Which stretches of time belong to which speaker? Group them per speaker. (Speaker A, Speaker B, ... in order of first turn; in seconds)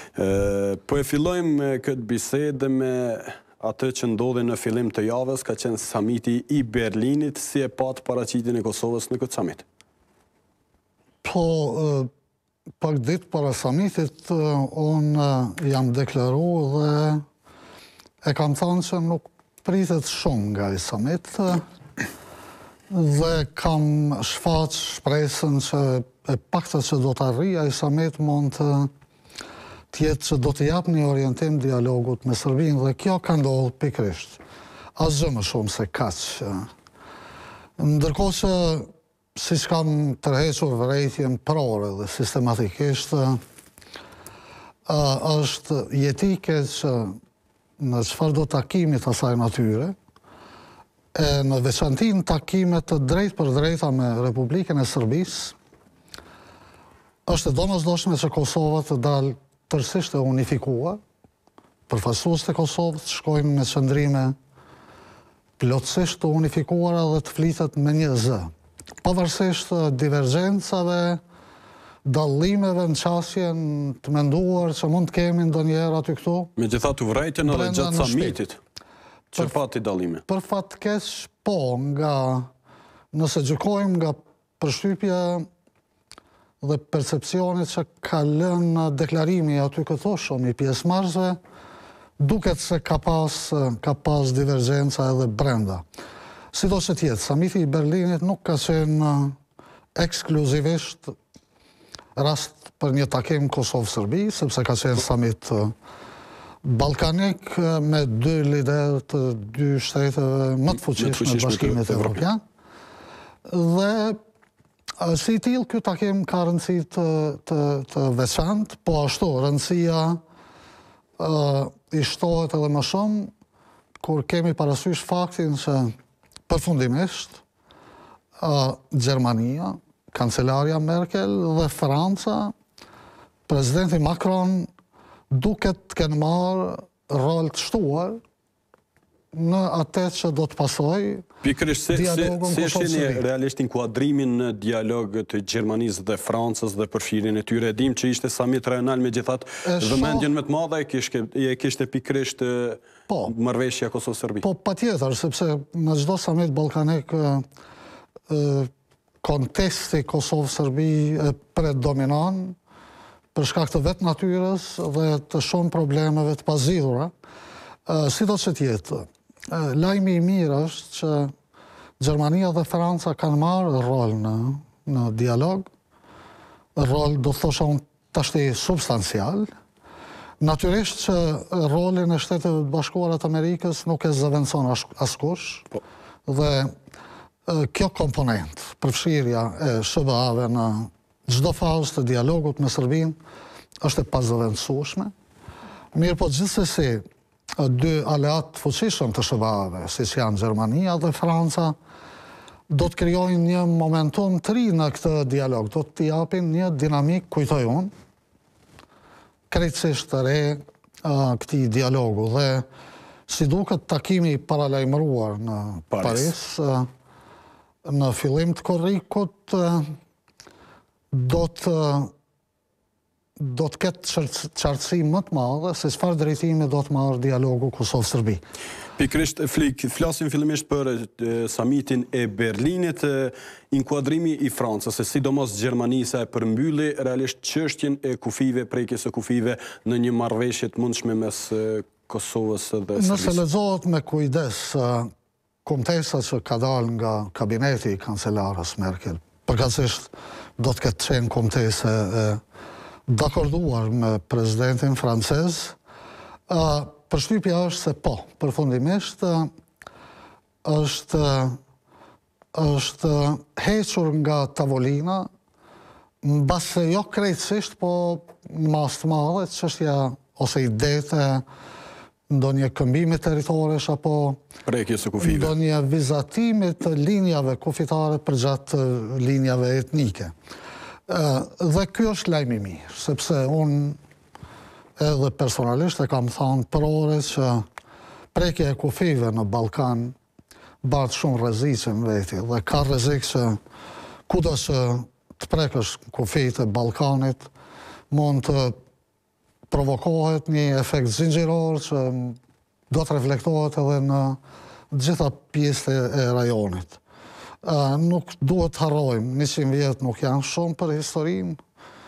Speaker A: 0.1-9.6, 76.6-78.6, 79.3-80.2, 110.8-112.2, 141.4-154.4, 215.9-216.3, 229.0-243.4, 274.6-275.5
Speaker B: 11.2-12.1, 12.8-17.2, 18.2-21.6, 22.9-28.9, 29.9-34.4, 35.0-36.7, 37.8-43.4, 44.9-47.2, 47.8-50.0, 51.1-55.5, 57.2-61.0, 61.9-64.3, 65.6-68.5, 69.0-71.2, 72.0-76.5, 77.4-78.4, 80.3-82.5, 83.1-85.5, 86.6-91.4, 92.2-95.8, 96.5-99.4, 100.0-101.1, 102.2-105.7, 106.6-112.4, 113.4-114.2, 115.0-120.2, 121.2-123.3, 124.0-125.9, 126.5-127.4, 128.4-132.5, 133.5-134.7, 135.3-138.2, 139.3-141.3, 141.9-143.2, 149.6-150.3, 154.4-157.4, 158.3-158.7, 159.2-162.6, 163.3-167.1, 167.8-171.3, 172.0-175.7, 176.7-179.5, 180.4-185.7, 186.3-186.7, 187.5-193.2, 193.8-195.1, 195.9-201.8, 202.7-207.9, 209.5-212.7, 213.3-216.9, 217.8-219.9, 221.1-222.1, 223.4-228.4, 242.9-245.1, 245.6-252.4, 253.1-255.8, 256.5-259.5, 260.6-261.6, 262.5-265.3, 266.2-271.4, 272.3-274.4, 275.2-280.3, 281.1-284.0, 285.0-287.6, 288.3-290.1, 290.8-293.6, 294.3-297.5, 298.1-298.8, 299.7-302.4, 302.9-304.4, 304.9-307.0, 307.6-311.6